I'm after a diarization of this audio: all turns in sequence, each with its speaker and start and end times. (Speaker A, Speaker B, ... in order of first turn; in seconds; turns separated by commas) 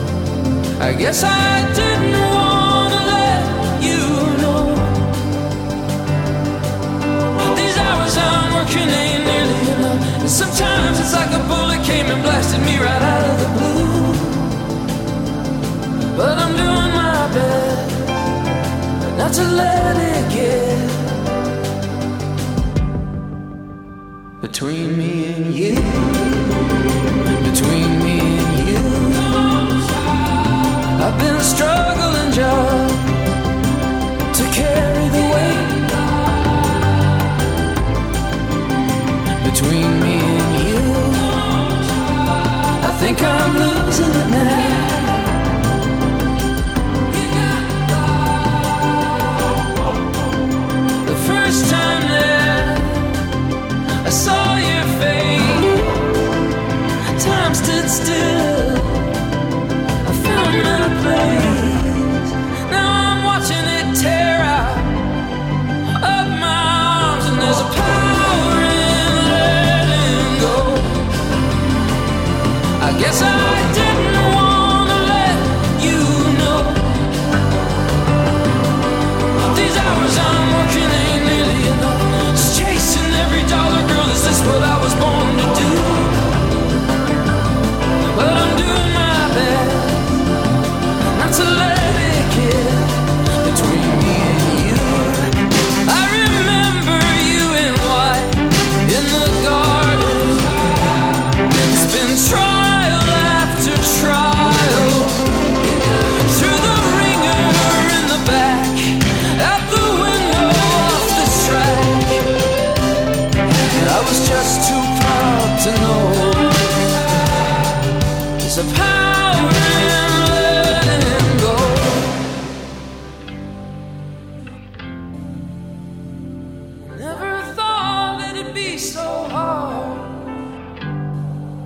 Speaker A: 0.8-5.2, Speaker A: 7.4-14.6, Speaker A: 16.1-18.3, Speaker A: 19.1-21.2, Speaker A: 24.4-26.7, Speaker A: 27.2-30.1, Speaker A: 30.8-33.2, Speaker A: 34.3-36.6, Speaker A: 39.4-45.4, Speaker A: 47.1-49.4, Speaker A: 51.0-53.2, Speaker A: 54.0-56.1, Speaker A: 57.1-59.1, Speaker A: 60.0-65.1, Speaker A: 65.9-71.0, Speaker A: 72.8-77.1, Speaker A: 79.3-86.2, Speaker A: 88.1-90.3, Speaker A: 91.1-112.3, Speaker A: 113.7-117.3, Speaker A: 118.4-122.3, Speaker A: 126.9-130.2